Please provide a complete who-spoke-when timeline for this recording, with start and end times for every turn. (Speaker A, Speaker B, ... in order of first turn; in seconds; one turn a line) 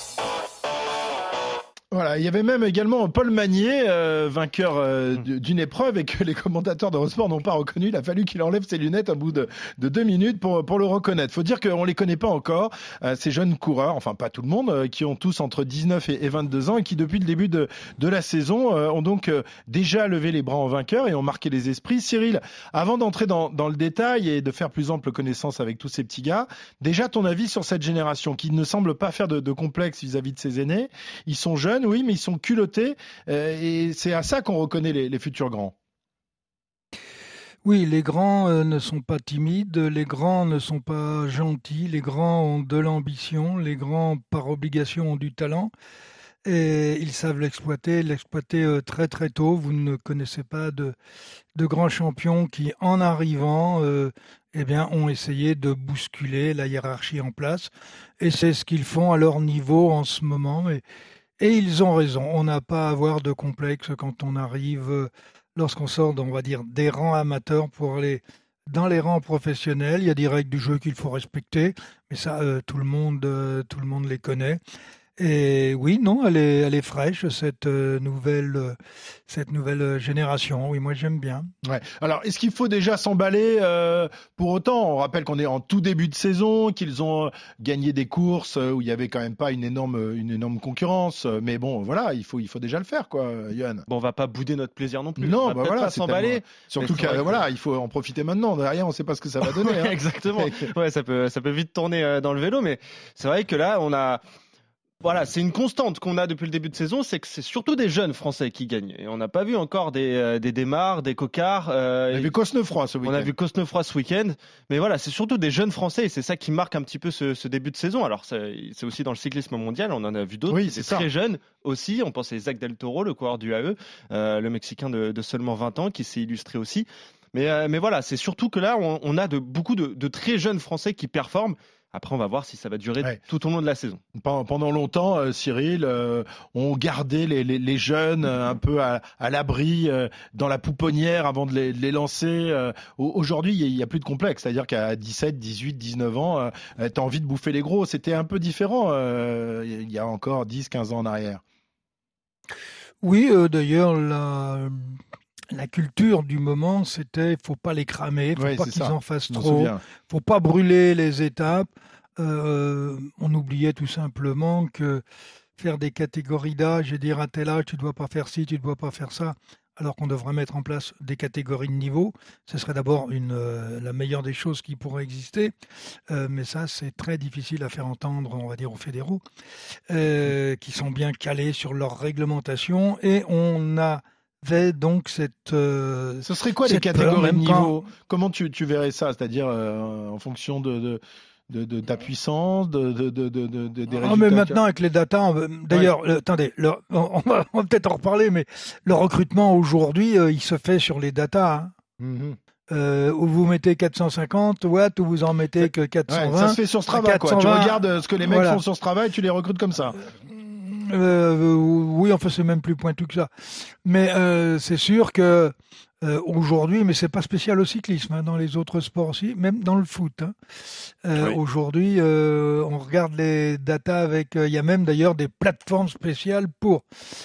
Speaker A: 1.9-35.8
Speaker B: 37.6-45.7
Speaker B: 46.5-51.0
Speaker B: 51.6-57.7
Speaker B: 58.2-60.8
Speaker B: 61.4-74.6
Speaker B: 75.2-78.8
Speaker B: 79.3-81.5
Speaker A: 81.6-93.9
Speaker C: 93.9-97.4
Speaker A: 95.2-100.7
Speaker C: 99.4-104.2
Speaker C: 105.0-112.3
Speaker A: 112.1-113.3
Speaker C: 113.0-134.0
Speaker A: 120.5-121.1
Speaker A: 134.2-151.4
Speaker B: 153.0-155.0
Speaker B: 155.5-165.0
Speaker A: 158.4-159.8
Speaker B: 165.6-175.6
Speaker B: 176.1-179.2
Speaker B: 179.9-187.8
Speaker A: 186.2-194.6
Speaker B: 193.9-201.7
Speaker A: 202.0-202.4
Speaker B: 202.7-208.6
Speaker A: 206.1-210.0
Speaker B: 210.3-220.3
Speaker B: 221.0-226.8